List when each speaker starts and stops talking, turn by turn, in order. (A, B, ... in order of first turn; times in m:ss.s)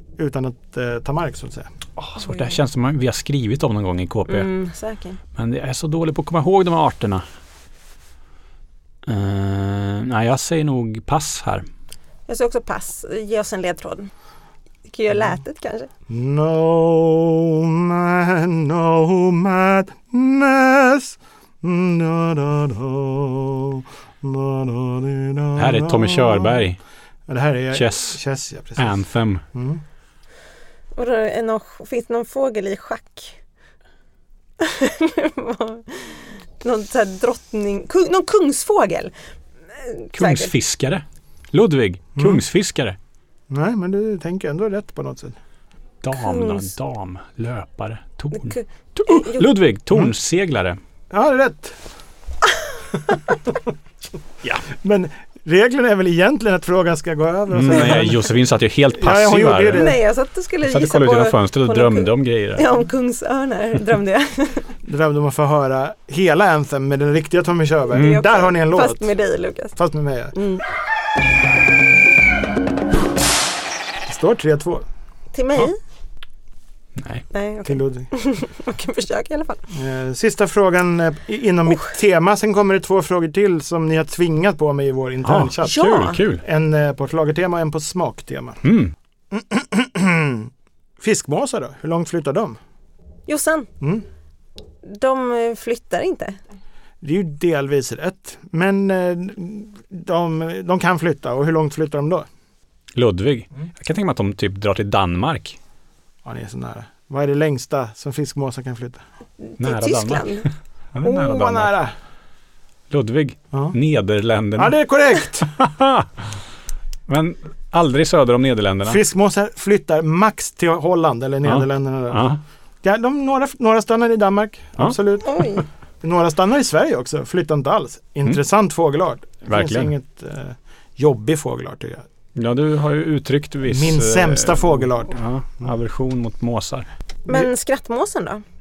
0:00.2-0:01.7 A
0:02.0-0:04.5 B
0:04.3-0:05.2 C
0:05.4-0:07.2 B
0:09.1-0:11.7 B
0:12.3-0:14.1 C
0:14.9-0:15.9 C
0:16.1-0:26.6 A
0:25.6-0:26.8 B
0:27.3-0:29.0 A
0:27.7-0:28.2 B
0:28.8-0:29.4 B
0:29.5-0:29.8 A
0:31.0-0:33.4 C
0:34.6-0:39.1 C
0:39.7-0:40.5 C
0:40.2-0:43.0 B
0:42.2-0:42.4 A
0:43.5-0:45.4 A
0:46.0-0:50.8 B
0:46.2-0:46.7 C
0:48.4-0:49.5 C
0:51.1-0:51.8 A
0:54.8-0:58.3 A
0:57.5-0:59.9 B
0:57.7-0:58.0 C
0:59.0-1:00.0 A
0:59.8-1:04.7 C
1:00.7-1:02.7 B
1:04.8-1:09.1 A
1:07.9-1:09.8 C
1:08.0-1:08.2 B
1:09.8-1:10.4 A
1:10.3-1:10.6 C
1:14.1-1:14.8 A
1:15.3-1:15.8 C
1:17.0-1:17.3 B
1:17.3-1:19.6 C
1:17.6-1:18.1 A
1:19.7-1:28.6 A
1:25.2-1:26.4 B
1:25.6-1:26.2 C
1:28.6-1:28.9 B
1:29.3-1:32.6 A
1:33.3-1:33.7 C
1:34.8-1:36.4 C
1:37.0-1:42.3 A
1:43.0-1:45.6 B
1:46.2-1:49.0 A
1:49.4-1:50.5 C
1:49.6-1:51.7 B
1:51.0-1:51.9 A
1:52.9-1:54.8 B
1:54.6-1:55.5 A
1:55.5-1:56.2 B
1:57.1-1:59.0 B
1:58.8-2:02.2 A
2:01.4-2:02.4 B
2:02.8-2:05.5 A
2:05.2-2:05.6 C
2:06.0-2:12.0 A
2:09.5-2:09.9 B
2:12.4-2:16.9 B
2:13.7-2:15.1 A
2:17.3-2:18.4 C